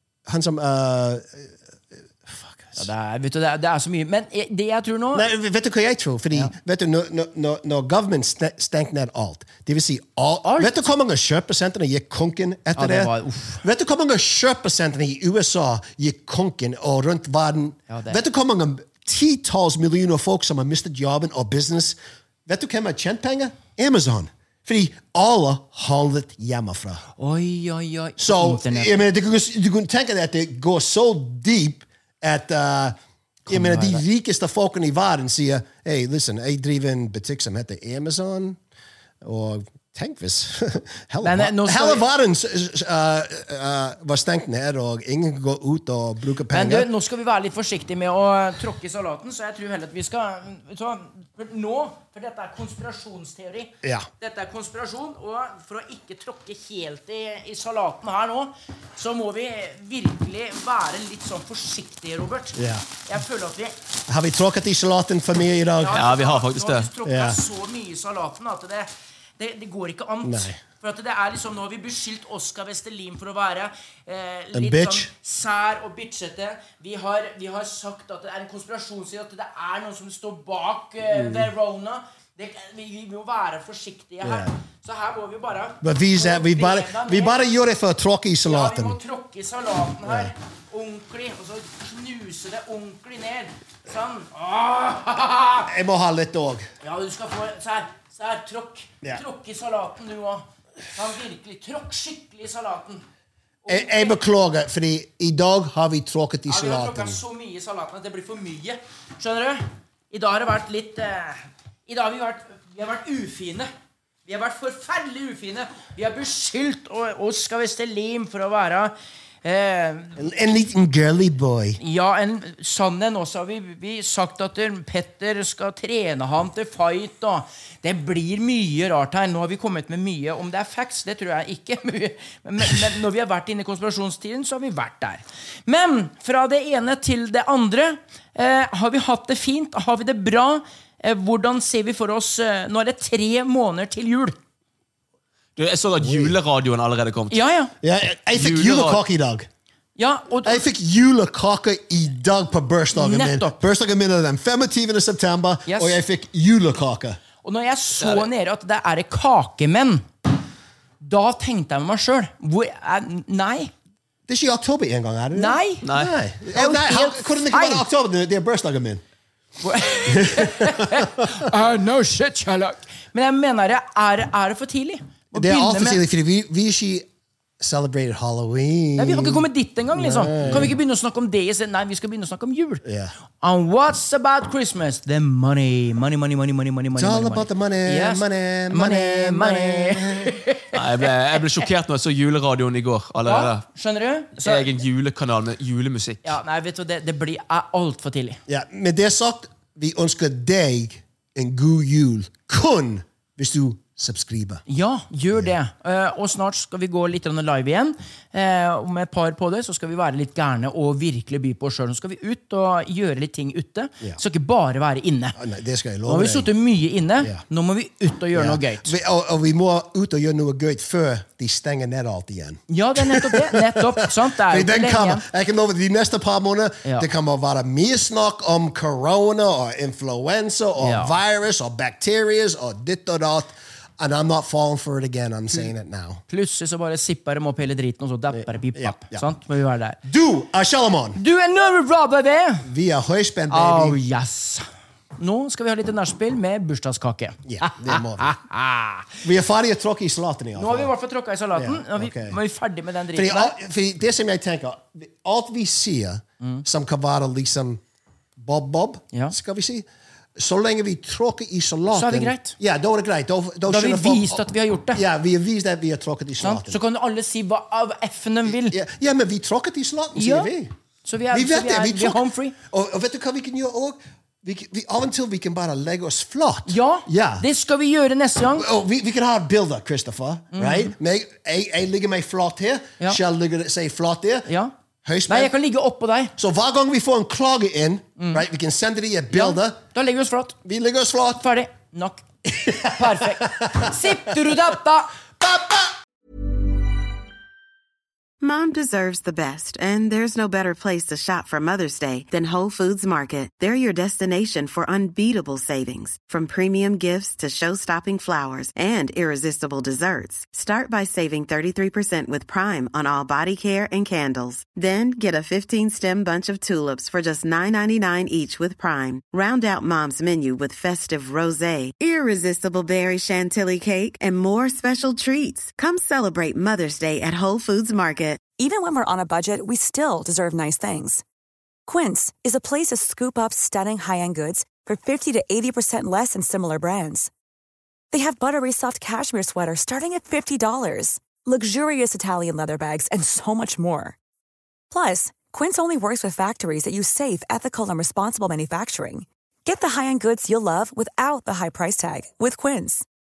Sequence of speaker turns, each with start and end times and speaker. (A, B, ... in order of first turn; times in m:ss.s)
0:00.3-0:02.9 A
0:02.8-0:05.3 B
0:05.1-0:27.0 A
0:10.4-0:10.8 B
0:12.8-0:13.6 B
0:17.9-0:18.2 B
0:27.2-0:29.0 B
0:28.2-0:33.0 A
0:33.5-0:38.6 A
0:33.5-0:34.0 B
0:39.2-0:46.9 A
0:41.2-0:42.0 B
0:46.5-1:03.8 B
1:02.6-1:02.8 A
1:04.1-1:06.0 A
1:05.8-1:27.4 B
1:05.9-1:06.9 C
1:07.0-1:07.4 A
1:10.2-1:10.6 A
1:14.5-1:15.1 A
1:21.1-1:21.5 A
1:24.2-1:24.5 A
1:25.8-1:29.0 A
1:28.4-1:35.7 B
1:30.0-1:30.3 A
1:35.6-1:36.7 A
1:36.8-1:43.0 B
1:43.6-1:44.2 B
1:43.7-1:47.2 A
1:46.5-1:53.7 B
1:54.3-2:00.2 B
2:00.2-2:01.8 A
2:01.8-2:24.4 B
2:25.6-2:27.4 C
2:26.0-2:26.4 A
2:27.3-2:27.7 B
2:27.8-2:29.5 A
2:28.4-2:29.0 C
2:30.0-2:30.6 B
2:30.4-2:37.2 A
2:32.9-2:33.6 B
2:35.7-2:36.0 B
2:37.4-2:40.1 B
2:38.0-2:38.3 C
2:41.0-2:43.7 B
2:44.3-2:49.0 A
2:45.3-2:45.9 B
2:45.8-2:46.1 C
2:46.5-2:47.8 B
2:49.6-2:56.0 B
2:50.1-2:51.3 A
2:55.3-2:57.1 A
2:57.6-3:00.8 A
2:59.0-3:02.8 B
3:02.8-3:03.1 A
3:03.4-3:10.8 B
3:07.0-3:10.4 A
3:10.7-3:13.6 C
3:13.2-3:14.7 B
3:14.4-3:16.3 C
3:16.2-3:18.4 B
3:18.5-3:24.6 A
3:24.7-3:35.4 B
3:35.4-3:36.5 A
3:36.1-3:38.9 B
3:38.3-3:56.2 A
3:42.7-3:45.2 B
3:50.8-3:51.1 B
3:56.3-4:00.0 B
3:58.3-3:59.2 A
4:00.0-4:01.2 A
4:01.2-4:02.7 B
4:02.6-4:04.0 A
4:03.5-4:04.7 B
4:05.2-4:09.2 B
4:07.5-4:08.3 A
4:09.2-4:10.9 A
4:10.6-4:13.6 B
4:11.6-4:12.4 A
4:13.1-4:17.8 A
4:18.4-4:26.8 A
4:21.9-4:22.6 B
4:23.7-4:25.0 B
4:26.4-4:28.8 B
4:28.5-4:30.7 A
4:30.1-4:30.5 B
4:31.0-4:32.6 B
4:31.3-4:37.4 A
4:36.7-4:38.7 B
4:38.6-4:44.5 A
4:40.5-4:40.9 B
4:44.5-4:44.7 B
4:45.0-4:45.5 A
4:45.3-4:46.3 B
4:46.4-4:49.8 A
4:48.2-4:48.4 B
4:49.3-4:50.6 B
4:50.6-4:51.4 A
4:51.4-4:55.1 B
4:52.4-4:54.5 A
4:55.4-4:55.9 A
4:58.4-5:28.5 D
5:28.6-5:31.2 E
5:31.9-5:37.3 E
5:38.1-5:44.2 E
5:44.9-5:53.1 E